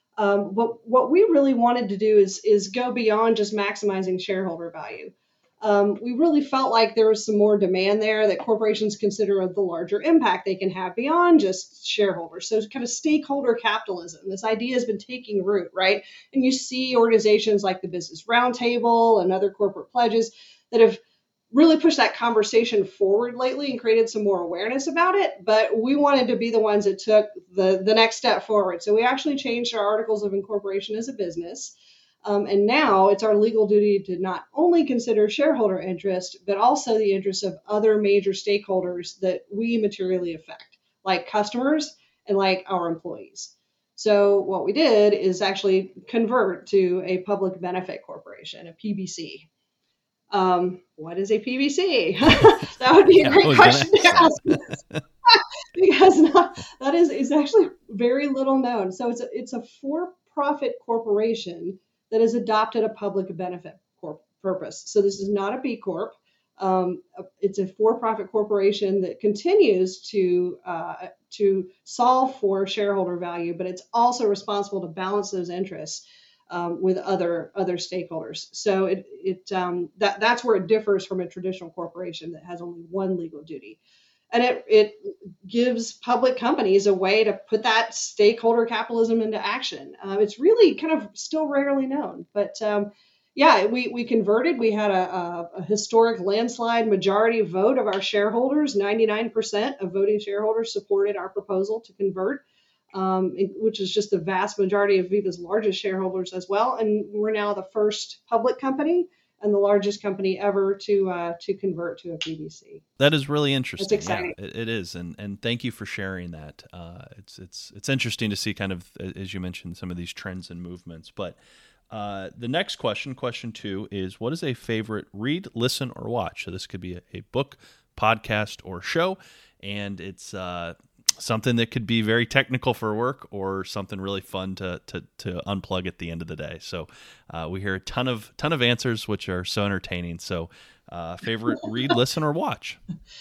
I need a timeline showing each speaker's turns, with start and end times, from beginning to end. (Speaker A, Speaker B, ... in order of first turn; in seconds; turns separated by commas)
Speaker A: 0.2-49.5, Speaker A: 50.3-54.7, Speaker B: 53.2-55.0, Speaker A: 55.2-83.8, Speaker A: 84.3-102.4, Speaker A: 102.9-112.8, Speaker B: 113.0-121.4, Speaker A: 113.8-114.3, Speaker B: 121.9-142.8